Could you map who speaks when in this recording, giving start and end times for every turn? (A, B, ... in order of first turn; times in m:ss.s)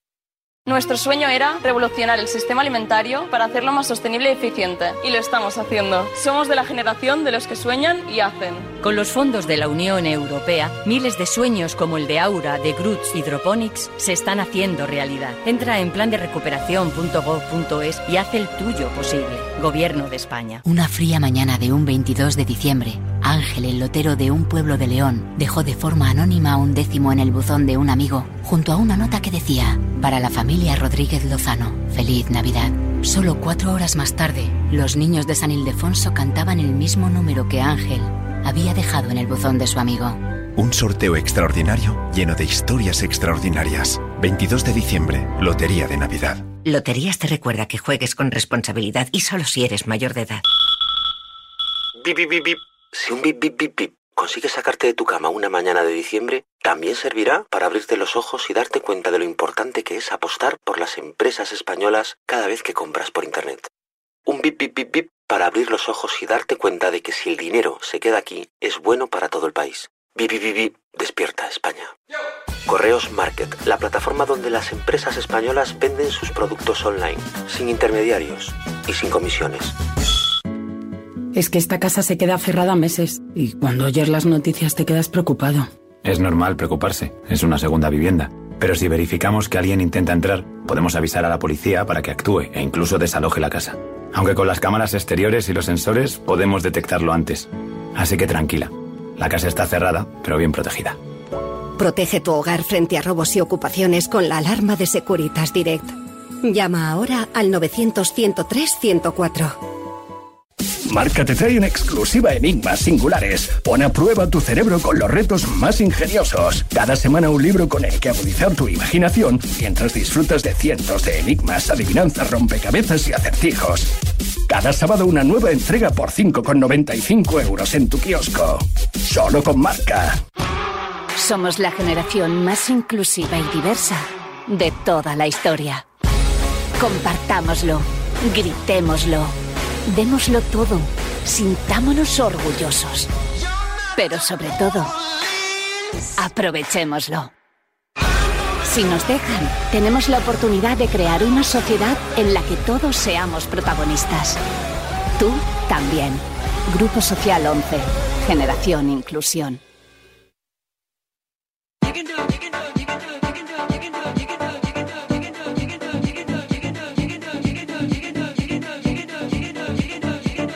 0:00.7-0:08.7 A
0:08.8-0:20.6 B
0:20.6-0:40.2 C
0:40.6-0:46.4 D
0:46.6-0:50.4 C
0:52.0-1:03.7 E
1:04.3-1:11.9 E
1:12.7-1:19.7 E
1:21.3-1:25.7 F
1:26.0-1:41.0 G
1:41.8-1:49.6 H
1:50.9-2:03.9 I
2:04.5-2:10.2 I
2:11.2-2:15.8 C
2:16.8-2:19.3 C
2:19.9-2:23.1 C
2:24.0-2:24.9 C
2:26.2-2:27.3 C
2:28.6-2:34.4 C
2:35.2-2:39.6 C